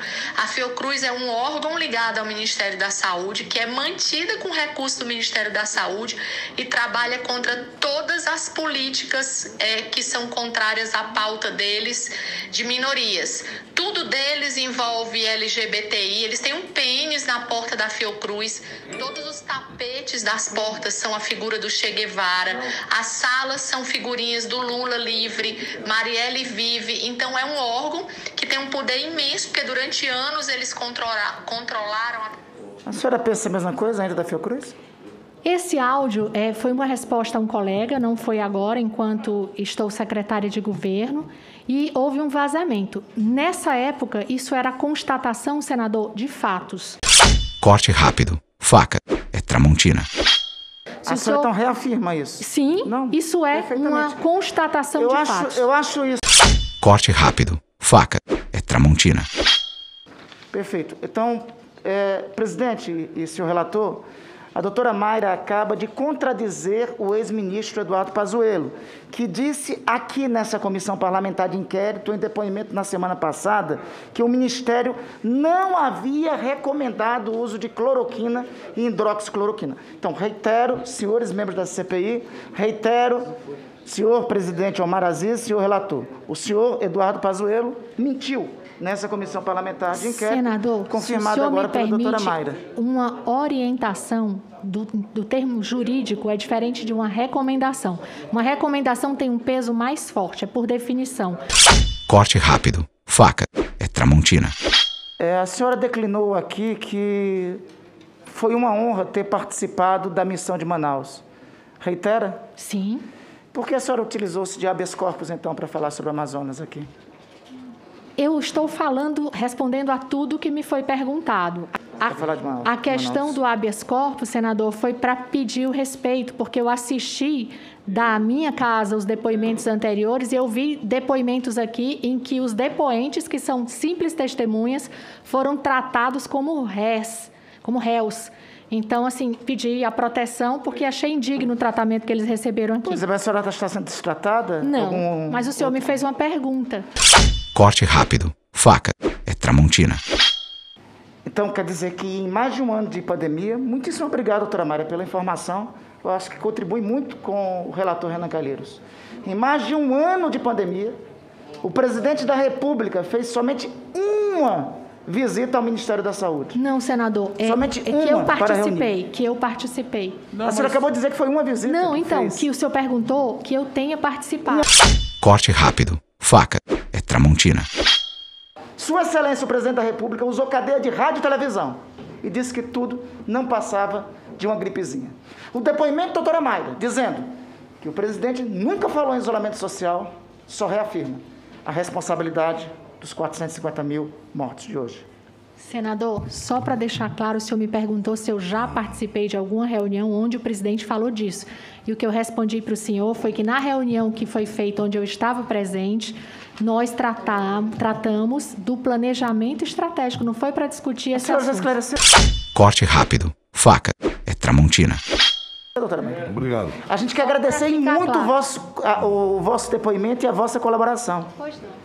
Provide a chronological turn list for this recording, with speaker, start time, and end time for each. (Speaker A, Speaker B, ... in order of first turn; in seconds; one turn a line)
Speaker A: 0.4-32.3
Speaker B: 10.9-11.6
Speaker B: 12.5-13.9
Speaker B: 17.1-18.1
Speaker B: 19.9-21.2
Speaker C: 32.9-34.8
Speaker B: 35.4-47.0
Speaker D: 47.6-50.1
Speaker C: 51.0-54.2
Speaker B: 51.1-51.5
Speaker B: 52.4-55.6
Speaker C: 55.0-56.2
Speaker D: 56.8-59.3
Speaker C: 60.5-83.3
Speaker C: 83.8-92.6
Speaker B: 89.9-101.4
Speaker D: 102.1-104.5
Speaker C: 105.2-107.6
Speaker C: 108.3-111.2
Speaker C: 111.8-112.4
Speaker B: 112.6-113.0
Speaker C: 113.5-116.9
Speaker B: 118.2-122.1
Speaker C: 122.1-123.4
Speaker B: 122.6-143.0
Speaker C: 142.8-146.0
Speaker B: 144.6-146.8
Speaker D: 147.5-150.0
Speaker C: 151.2-160.9
Speaker C: 161.6-166.6
Speaker B: 166.6-170.7
Speaker C: 167.4-168.9
Speaker C: 170.4-172.4
Speaker B: 171.6-174.7
Speaker D: 175.2-177.7
Speaker C: 178.8-187.3
Speaker C: 187.8-195.0
Speaker B: 195.6-211.7
Speaker C: 211.1-212.0
Speaker D: 212.5-215.0
Speaker C: 215.7-221.3
Speaker B: 217.2-218.3
Speaker B: 221.4-221.8